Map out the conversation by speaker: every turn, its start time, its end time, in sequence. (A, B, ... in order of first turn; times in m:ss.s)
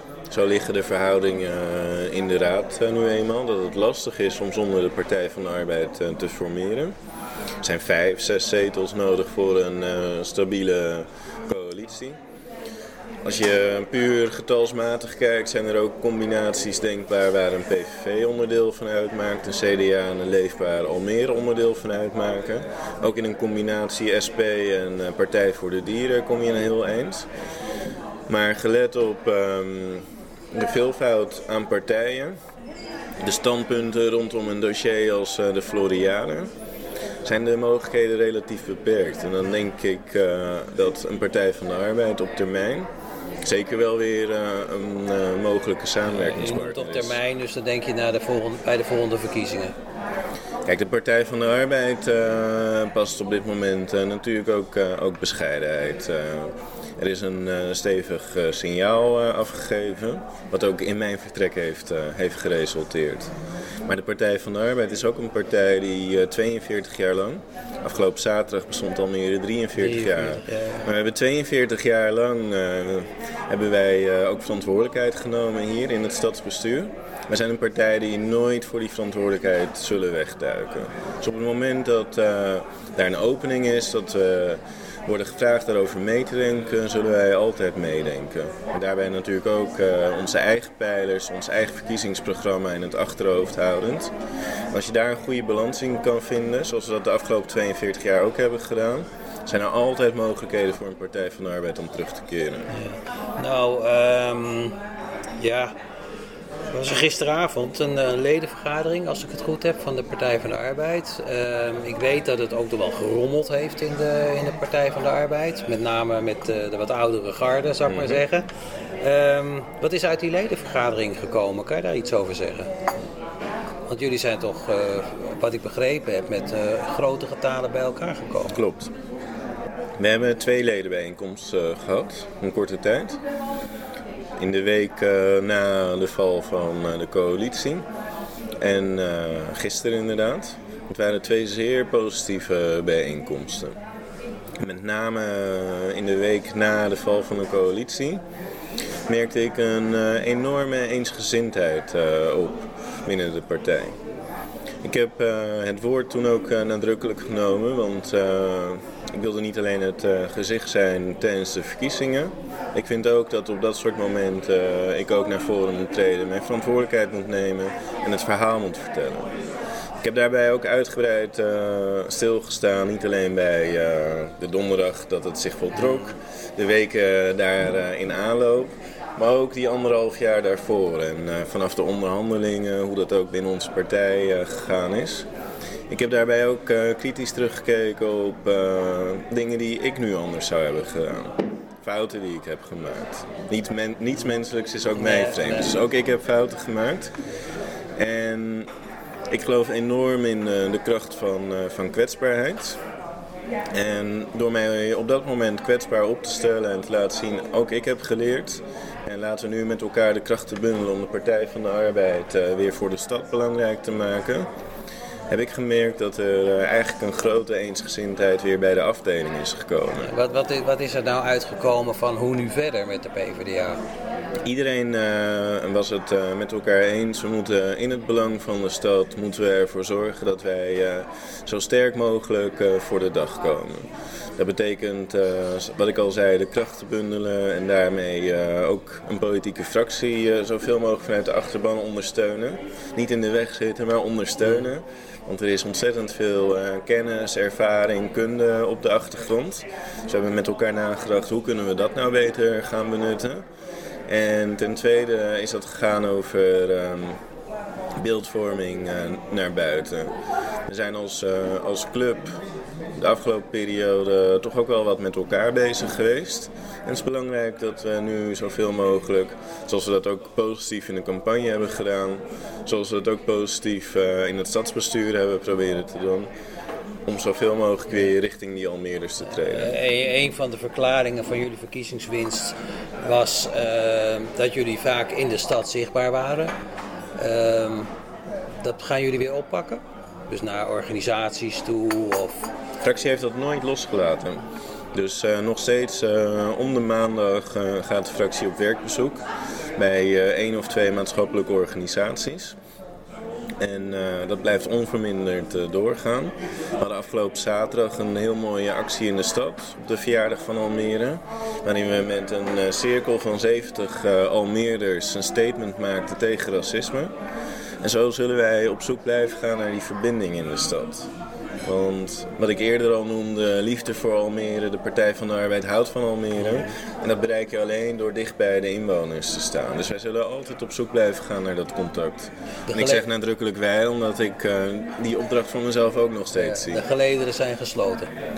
0:00.3-0:07.0 A
0:07.6-0:12.2 A
0:13.2-0:27.3 A
0:28.3-0:32.4 A
0:33.2-0:36.5 A
0:37.2-0:42.9 A
0:43.4-0:47.2 A
0:46.1-0:49.8 B
0:50.7-1:03.3 A
1:03.9-1:34.1 A
1:09.8-1:10.9 B
1:34.7-1:42.7 A
1:42.7-1:44.8 B
1:45.4-1:45.8 B
1:46.7-1:58.5 B
1:57.9-1:58.2 A
1:59.0-2:02.7 B
2:03.9-2:08.6 B
2:08.5-2:08.9 A
2:10.0-2:13.2 A
2:14.4-2:17.9 A
2:18.6-2:23.8 A
2:24.6-2:28.2 A
2:29.1-2:34.0 A
2:34.8-2:49.3 A
2:50.0-3:05.3 A
3:05.9-3:17.1 A
3:15.0-3:15.7 B
3:18.0-3:18.7 A
3:19.3-3:22.8 A
3:23.7-3:34.5 A
3:35.3-3:40.1 A
3:40.0-3:43.8 B
3:44.4-4:13.5 A
4:14.1-4:17.2 A
4:18.0-4:20.1 A
4:20.7-4:22.4 A
4:23.0-4:36.3 A
4:37.1-4:39.8 A
4:39.4-4:46.5 B
4:47.2-4:47.9 B
4:48.6-4:52.5 B
4:52.8-4:59.2 A
4:59.8-5:02.6 A
5:03.6-5:17.1 A
5:17.8-5:21.1 A
5:21.6-5:36.9 A
5:26.4-5:26.7 B
5:32.7-5:33.1 B
5:36.3-5:38.1 B